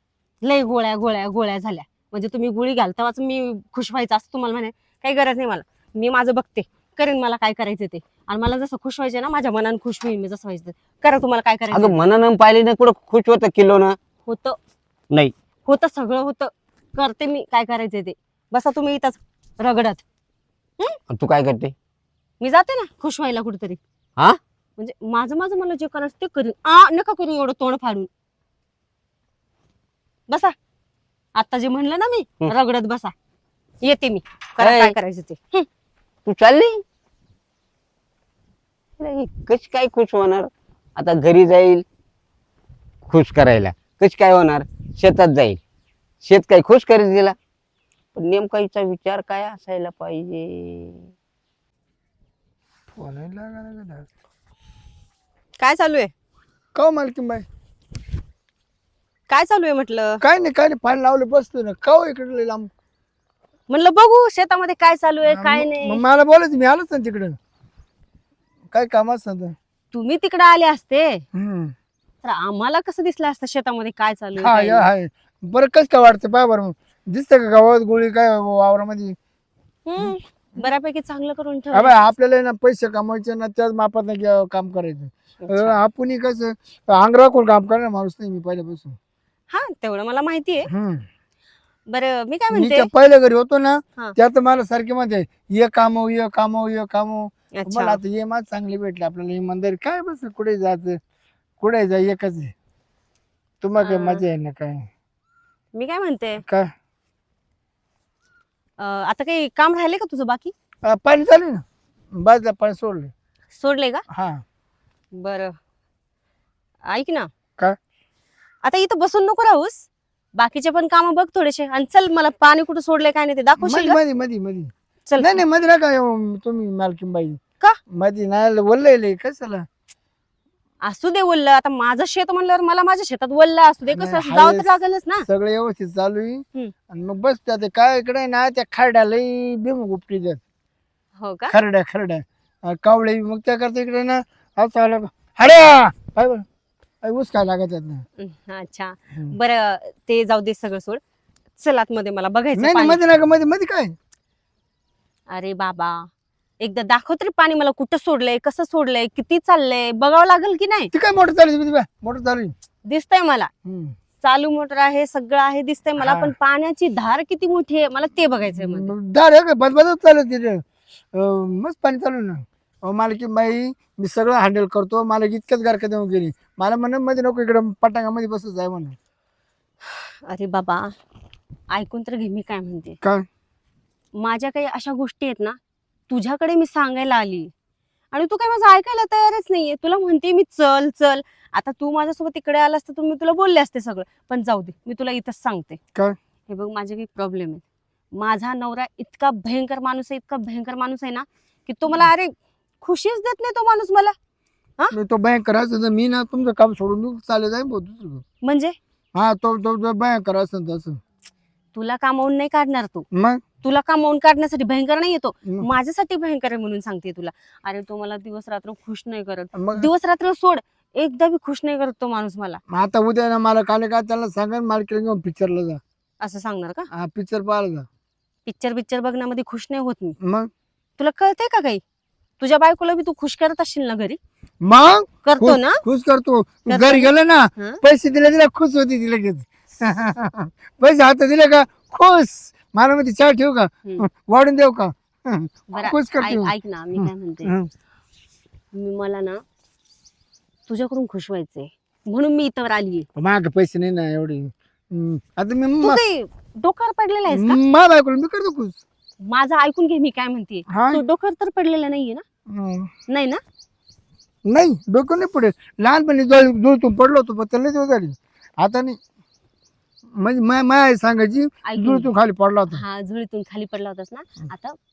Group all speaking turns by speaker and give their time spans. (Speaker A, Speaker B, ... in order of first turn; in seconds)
Speaker A: 0.4-12.0, 14.3-14.6, 15.7-20.0, 22.4-23.8, 24.8-28.1, 30.3-30.6, 31.4-33.1, 33.8-35.7, 55.6-56.1, 59.3-60.2, 63.7-66.0, 69.9-71.2, 72.2-74.9, 79.9-82.0, 85.4-85.8, 89.5-90.7, 91.9-92.9, 97.5-98.0, 103.8-104.2, 105.7-106.4, 108.8-110.5, 113.5-114.0, 115.1-115.6, 116.9-117.3, 118.6-124.0, 125.1-125.4, 130.8-135.3, 141.2-141.6, 148.2-151.0, 151.6-153.0, 155.3-156.1, 156.6-160.9, 162.9-163.5, 164.2-168.9, 179.9-180.9, 181.7-183.0, 184.2-185.6, 186.1-187.5, 188.1-195.8, 196.5-204.2, 208.4-208.8, 211.7-213.1, 213.6-222.6, 226.2-226.9, 228.5-230.2, 231.0-231.8, 232.4-234.2, 235.2-235.8, 236.7-237.8, 245.7-247.5, 248.7-249.4, 250.7-253.1, 255.8-257.6, 259.2-262.2, 263.1-263.4, 271.6-272.1, 272.7-274.8
Speaker B: 11.7-14.0, 21.1-21.7, 34.6-35.0, 36.3-36.8, 39.0-41.9, 43.1-45.6, 46.2-47.4, 48.1-51.1
Speaker C: 52.9-54.1, 56.7-57.5, 60.2-62.7, 65.2-67.4, 68.7-69.5, 71.3-71.7, 74.4-79.2, 80.0-80.7, 81.7-89.0, 90.7-91.0, 92.5-101.0, 101.6-102.5, 103.6-104.9, 106.4-106.7, 110.8-113.1, 114.1-114.4, 123.6-129.7, 133.9-134.7, 135.3-140.4, 141.5-146.4, 147.0-148.1, 152.6-153.9, 160.9-162.5, 163.7-163.9, 166.0-166.3, 168.5-179.0, 204.9-208.2, 209.2-211.0, 213.1-213.4, 219.5-219.9, 222.7-225.8, 226.9-227.9, 230.2-230.5, 234.6-247.7, 253.2-256.0, 257.3-258.8, 260.7-261.0, 262.5-262.9, 264.5-269.0, 270.1-272.8